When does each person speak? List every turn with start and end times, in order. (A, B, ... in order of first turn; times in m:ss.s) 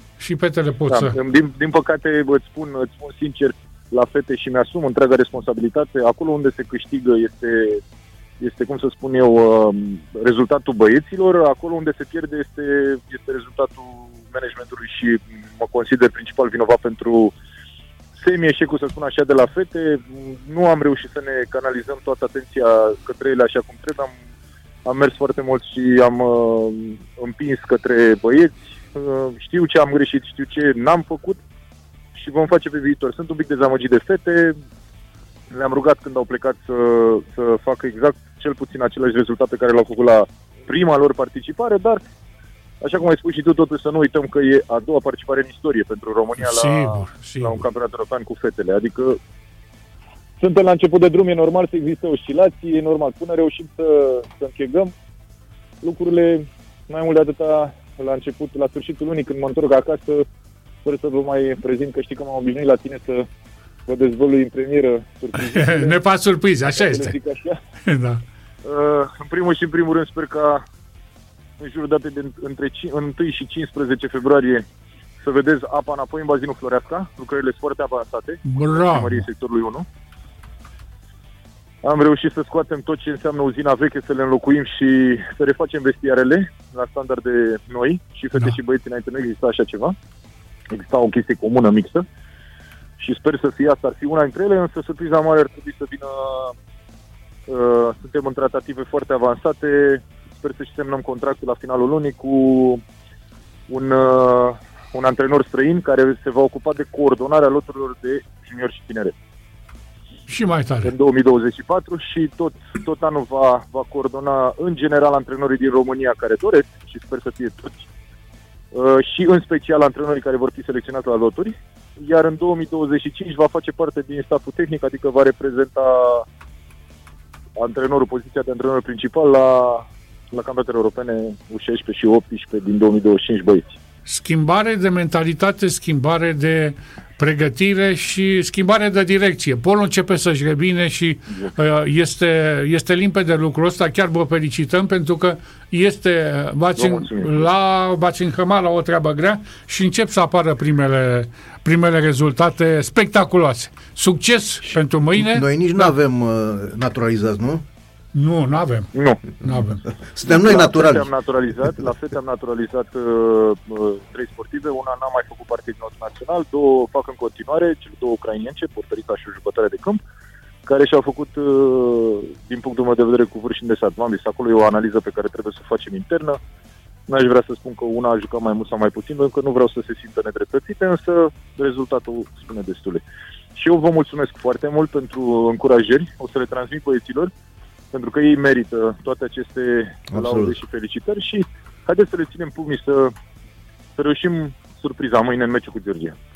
0:00.2-0:01.1 A
0:00.9-0:07.8 B
0:08.4-0:17.3 B
0:18.2-0:24.2 B
0:24.8-0:31.4 B
0:32.2-0:34.6 B
0:35.5-0:42.0 B
0:42.8-0:49.2 B
0:46.4-0:47.6 A
0:50.4-0:54.9 B
0:55.8-1:00.2 B
1:00.8-1:03.3 B
1:03.9-1:06.0 B
1:05.4-1:07.2 A
1:06.7-1:07.6 B
1:07.8-1:08.2 A
1:08.6-1:10.6 B
1:11.6-1:14.6 B
1:15.2-1:19.9 B
1:18.4-1:19.2 A
1:21.8-1:30.0 B
1:30.7-1:32.1 B
1:33.0-1:36.6 B
1:37.5-1:42.8 B
1:43.7-1:49.1 B
1:50.3-1:50.9 A
1:50.8-1:57.9 B
1:58.7-2:06.3 B
2:07.6-2:13.8 B
2:14.1-2:35.9 A
2:26.8-2:27.5 B
2:35.2-2:37.6 C
2:38.1-2:39.8 A
2:38.9-2:39.3 B
2:40.0-2:41.1 C
2:40.3-2:50.0 B
2:50.7-2:56.4 B
2:57.1-3:03.0 B
3:03.6-3:07.3 B
3:07.9-3:13.1 B
3:10.1-3:10.6 C
3:14.0-3:16.2 B